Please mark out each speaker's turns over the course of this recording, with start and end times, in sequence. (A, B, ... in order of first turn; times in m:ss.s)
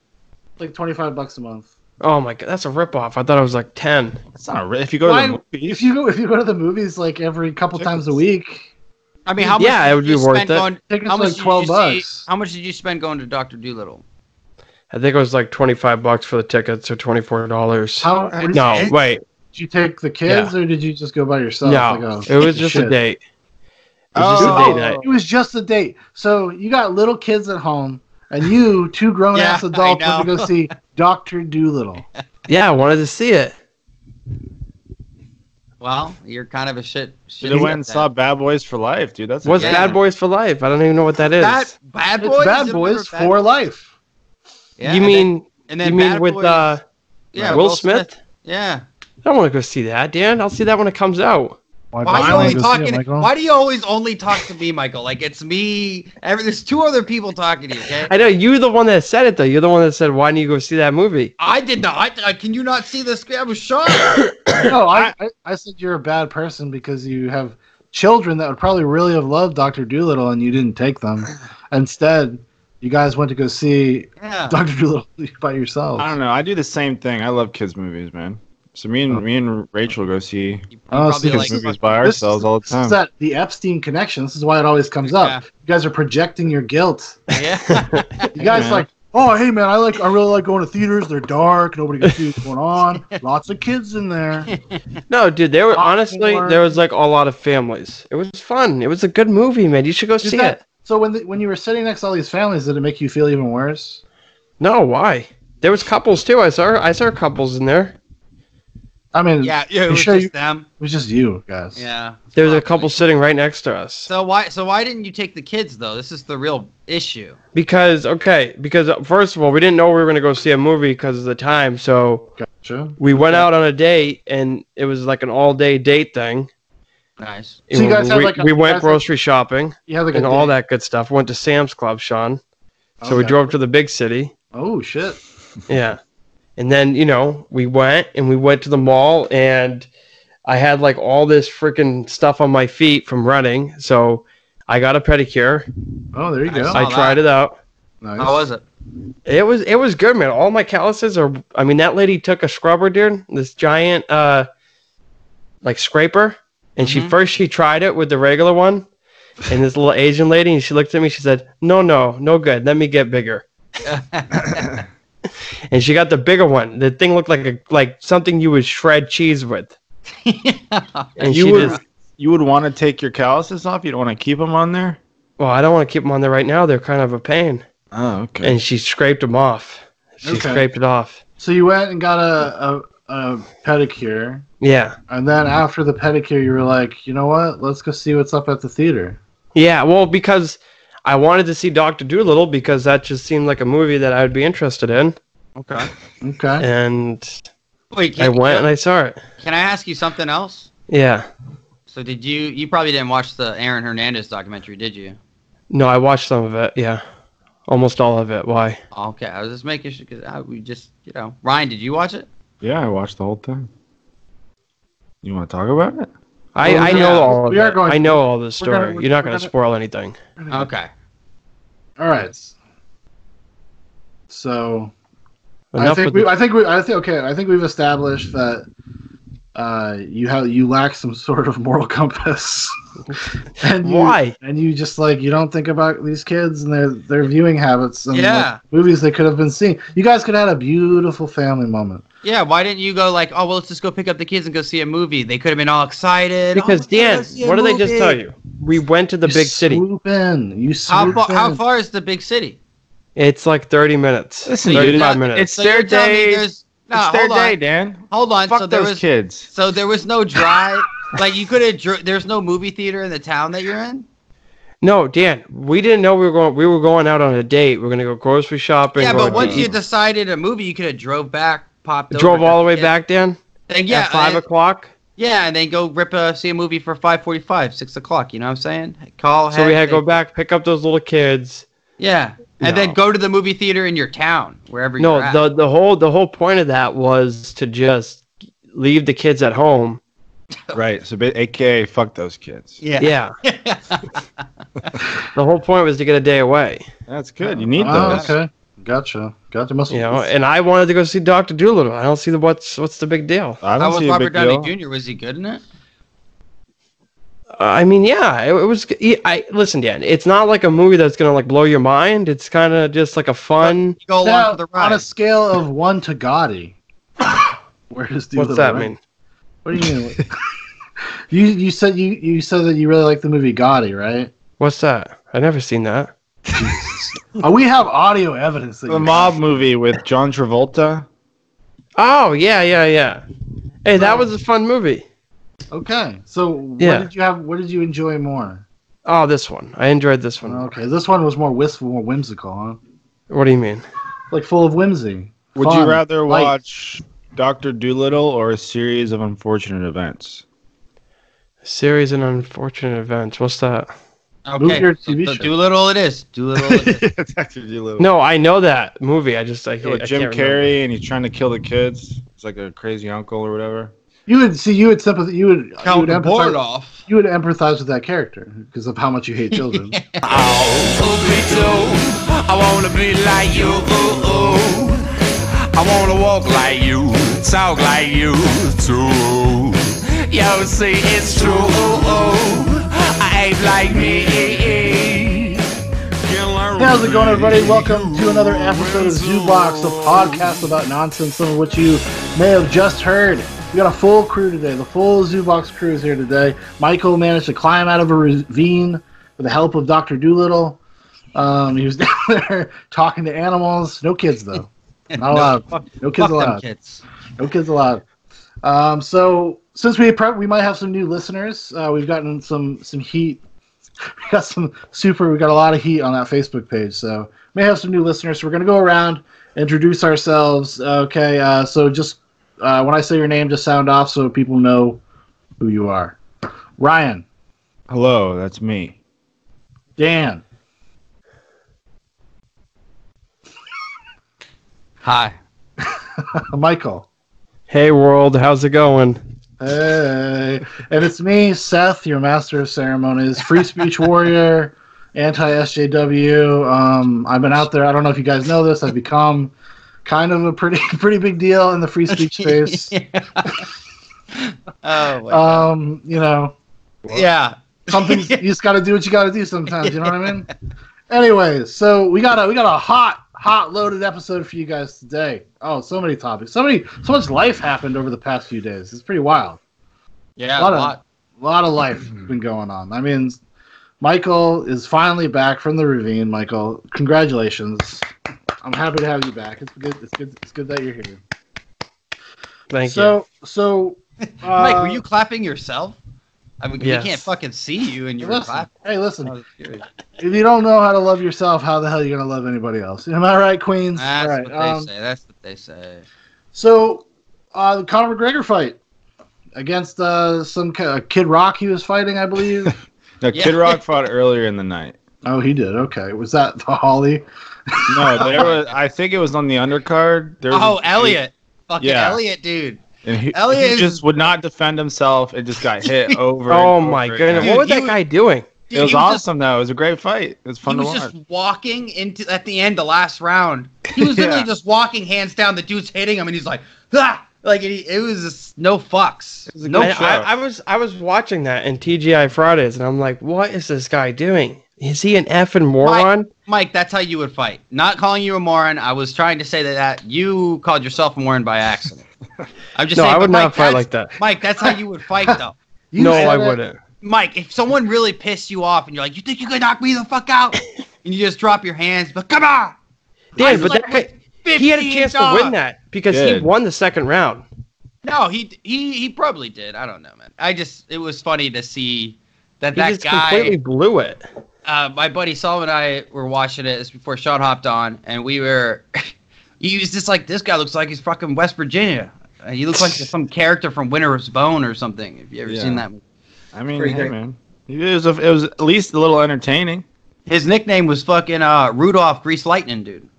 0:00.6-0:01.7 A
0:02.0-0:04.2 B
0:04.4-0:05.9 C
0:05.0-0:08.7 A
0:07.8-0:08.2 C
0:09.2-0:14.0 D
0:09.4-0:09.6 A
0:09.6-0:10.7 B
0:10.9-0:12.3 A
0:14.9-0:19.2 B
0:18.0-0:19.0 A
0:18.2-0:18.8 C
0:19.5-0:23.0 A
0:20.2-0:20.5 B
0:21.6-0:23.2 B
0:24.2-0:25.1 C
0:24.2-0:25.0 B
0:24.2-0:32.0 A
0:29.3-0:30.6 D
0:32.5-0:33.6 B
0:35.8-0:38.1 D
0:37.4-0:40.0 C
0:39.4-0:41.7 B
0:39.6-0:39.9 D
0:41.4-0:43.4 D
0:42.2-0:43.9 A
0:44.8-0:46.7 D
0:44.8-0:46.8 B
0:47.3-0:48.8 D
0:47.4-0:47.6 C
0:47.5-0:48.2 B
0:49.2-0:51.6 B
0:51.9-0:53.3 A
0:52.0-0:58.1 D
0:52.2-0:52.6 B
0:58.0-1:01.3 B
1:01.4-1:04.3 D
1:04.7-1:16.1 A
1:14.2-1:14.6 D
1:16.0-1:20.7 C
1:20.7-1:21.9 D
1:20.9-1:27.3 A
1:21.3-1:23.0 C
1:25.1-1:25.4 D
1:27.3-1:28.6 D
1:27.7-1:28.0 B
1:28.4-1:34.5 A
1:28.5-1:28.9 C
1:35.1-1:40.6 B
1:35.7-1:36.6 A
1:40.2-1:44.0 A
1:44.6-1:48.0 B
1:49.1-1:51.8 A
1:49.4-1:50.7 D
1:51.8-1:53.0 D
1:52.4-1:54.1 B
1:54.1-1:57.4 D
1:57.5-2:02.3 B
2:02.4-2:03.5 A
2:03.0-2:06.5 B
2:07.2-2:07.6 D
2:07.7-2:12.4 B
2:07.7-2:09.0 A
2:09.9-2:10.5 A
2:13.0-2:13.5 A
2:13.0-2:14.3 B
2:14.5-2:15.2 A
2:15.7-2:16.0 B
2:16.6-2:19.9 B
2:20.5-2:25.7 B
2:26.1-2:26.8 A
2:26.5-2:27.2 D
2:26.7-2:27.6 B
2:28.0-2:28.4 A
2:28.2-2:28.6 D
2:29.2-2:34.5 B
2:35.6-2:38.8 B
2:36.8-2:37.1 D
2:39.5-2:43.4 B
2:43.8-2:44.8 D
2:45.7-2:49.8 B
2:50.2-2:51.8 D
2:51.2-2:51.8 B
2:51.3-2:55.0 C
2:55.4-2:57.6 B
2:57.9-2:58.6 C
2:58.4-3:01.2 B
3:00.2-3:00.7 A
3:01.4-3:04.4 A
3:04.6-3:05.0 B
3:05.1-3:09.2 A
3:09.6-3:15.2 B
3:15.6-3:15.9 D
3:16.2-3:16.7 A
3:16.6-3:17.3 B
3:17.9-3:18.7 D
3:18.2-3:19.2 B
3:19.4-3:20.7 D
3:20.9-3:21.3 B
3:21.9-3:25.2 D
3:25.7-3:27.0 B
3:27.7-3:28.8 B
3:28.9-3:32.3 D
3:32.6-3:33.7 C
3:35.2-3:36.1 C
3:36.6-3:40.2 B
3:36.6-3:39.5 A
3:36.6-3:37.4 D
3:40.4-3:40.7 A
3:40.5-3:40.9 D
3:42.0-3:42.5 A
3:44.3-3:44.9 A
3:45.7-3:46.3 B
3:45.8-3:48.7 A
3:49.6-3:52.7 A
3:53.6-4:02.0 A
3:53.8-3:54.4 B
3:58.1-3:58.6 D
4:02.2-4:08.1 D
4:06.5-4:09.8 B
4:07.4-4:07.9 C
4:09.2-4:11.6 A
4:10.9-4:12.6 D
4:13.2-4:15.5 B
4:14.4-4:19.5 C
4:14.7-4:17.6 D
4:18.1-4:24.0 D
4:24.8-4:29.7 B
4:29.0-4:32.9 D
4:29.2-4:29.8 C
4:32.1-4:33.4 B
4:33.7-4:34.4 D
4:33.9-4:34.9 B
4:35.2-4:40.1 D
4:39.5-4:41.6 B
4:42.0-4:45.4 D
4:42.6-4:43.0 C
4:45.0-4:50.0 B
4:50.7-4:52.8 C
4:52.8-4:54.1 D
4:53.0-4:53.3 B
4:55.4-4:56.9 B
4:57.1-4:58.4 C
4:57.8-5:00.3 A
4:57.9-4:58.3 D
4:59.9-5:03.6 B
5:03.6-5:04.7 C
5:03.8-5:05.6 D
5:07.6-5:14.0 B
5:13.6-5:15.0 D
5:14.2-5:16.8 A
5:17.9-5:18.9 A
5:18.4-5:19.0 B
5:19.6-5:20.3 A
5:21.3-5:24.3 A
5:24.6-5:26.1 B
5:26.5-5:29.5 A
5:28.9-5:31.0 C
5:32.0-5:33.2 B
5:33.8-5:35.0 B
5:34.0-5:34.2 A
5:35.7-5:38.6 A
5:36.8-5:37.1 B
5:39.0-5:40.7 B
5:40.4-5:42.8 A
5:43.3-5:43.8 B
5:44.3-5:46.5 A
5:45.6-5:50.4 C
5:51.6-5:53.9 B
5:54.5-5:57.0 D
5:54.6-5:55.5 A
5:56.7-5:58.1 C
5:58.0-6:00.6 B
5:59.8-6:03.9 C
6:04.3-6:10.0 A
6:05.8-6:07.0 D
6:09.5-6:10.2 D
6:10.2-6:15.0 E
6:15.7-6:25.6 E
6:26.2-6:30.7 E
6:26.8-6:40.8 A
6:41.4-6:46.6 A
6:45.1-6:47.0 D
6:47.4-6:48.0 A
6:48.6-6:53.4 A
6:54.2-7:05.0 A
7:05.6-7:06.2 A
7:06.8-7:07.2 A
7:07.9-7:09.0 C
7:10.0-7:10.4 A
7:15.0-7:15.4 D
7:16.2-7:17.0 A
7:17.7-7:19.2 B
7:19.6-7:29.5 A
7:30.0-7:33.6 A
7:32.1-7:33.6 D
7:34.4-7:35.7 D
7:35.3-7:37.3 A
7:37.1-7:38.4 D
7:37.9-7:40.5 A
7:39.8-7:40.3 D
7:41.1-7:49.6 A
7:50.4-7:51.0 D
7:50.6-7:53.4 A
7:54.0-7:58.0 A
7:58.6-8:01.2 A
8:02.7-8:03.1 B
8:02.8-8:05.0 A
8:04.5-8:06.0 D
8:06.6-8:08.7 D
8:06.8-8:07.3 B
8:08.2-8:09.4 A
8:09.2-8:09.9 D
8:10.2-8:14.9 A
8:14.0-8:16.0 D
8:16.5-8:18.8 A
8:19.5-8:22.8 A
8:23.2-8:25.0 C
8:23.3-8:23.8 D
8:25.2-8:28.5 A
8:27.9-8:31.2 C
8:28.2-8:28.7 D
8:30.5-8:34.0 D
8:31.8-8:32.2 C
8:33.0-8:37.6 C
8:35.8-8:36.2 D
8:36.5-8:38.5 B
8:37.3-8:38.0 D
8:38.7-8:39.2 D
8:38.7-8:41.1 C
8:40.7-8:50.2 D
8:44.0-8:44.5 C
8:49.5-8:50.3 C
8:49.8-8:56.3 B
8:55.8-9:02.0 D
9:02.8-9:05.5 D
9:03.0-9:04.1 B
9:05.9-9:06.6 A
9:06.0-9:06.8 B
9:07.0-9:12.8 D
9:13.4-9:15.6 D
9:13.4-9:17.4 B
9:16.1-9:16.5 C
9:18.0-9:23.6 D
9:22.8-9:24.2 B
9:24.6-9:29.1 D
9:29.6-9:36.0 D
9:35.5-9:35.9 C
9:36.5-9:39.8 C
9:36.8-9:37.1 D
9:40.3-9:43.1 D